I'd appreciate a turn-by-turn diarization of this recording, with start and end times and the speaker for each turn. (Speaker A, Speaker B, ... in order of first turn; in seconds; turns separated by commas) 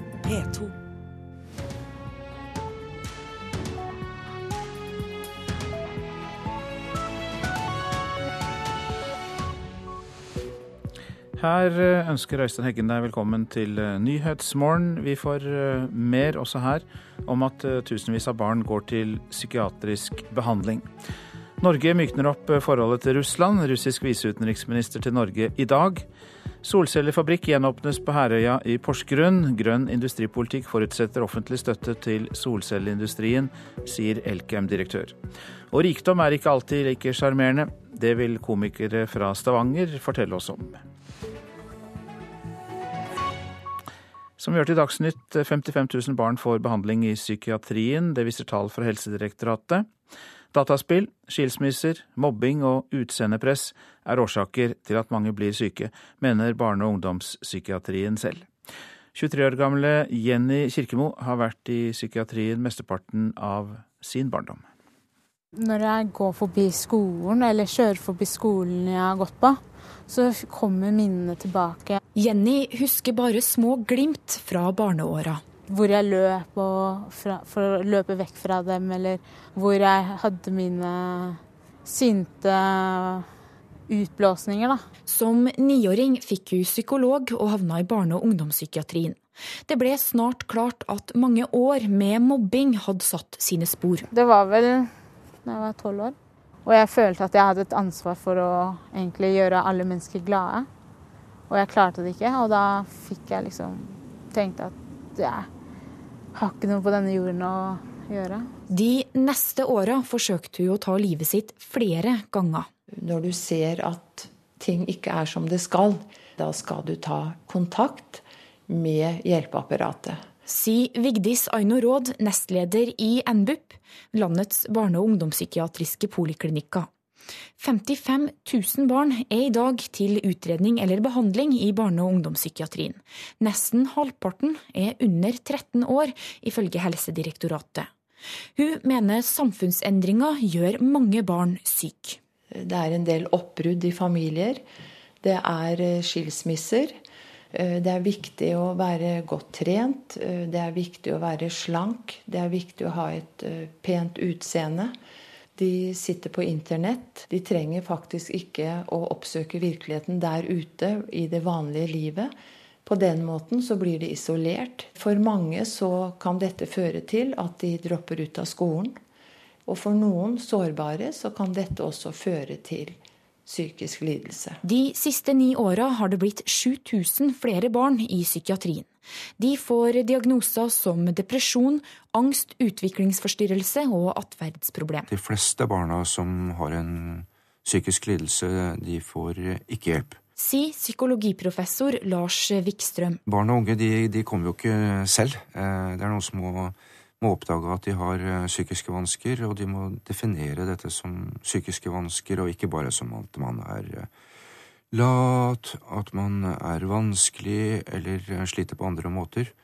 Speaker A: 11.4-20.9, Speaker A: 21.6-26.1, Speaker A: 26.6-35.2, Speaker A: 35.7-40.8, Speaker A: 44.4-49.9, Speaker A: 50.5-58.5, Speaker A: 59.1-64.7, Speaker B: 65.6-72.0, Speaker C: 72.2-75.4, Speaker B: 75.7-83.3, Speaker B: 83.9-84.8, Speaker C: 85.1-94.1, Speaker B: 94.1-94.9, Speaker B: 95.4-100.7, Speaker B: 101.5-105.5, Speaker B: 106.3-108.5, Speaker C: 108.7-112.7, Speaker D: 113.0-120.4, Speaker C: 120.5-126.9, Speaker C: 127.6-137.9, Speaker C: 138.6-142.2, Speaker D: 142.5-144.6, Speaker D: 145.2-147.0, Speaker D: 147.5-154.9, Speaker D: 155.6-162.3, Speaker D: 162.9-169.0, Speaker D: 169.7-174.6, Speaker C: 174.6-185.1, Speaker E: 185.1-190.2, Speaker C: 190.4-193.2, Speaker E: 193.3-204.1, Speaker E: 204.9-209.5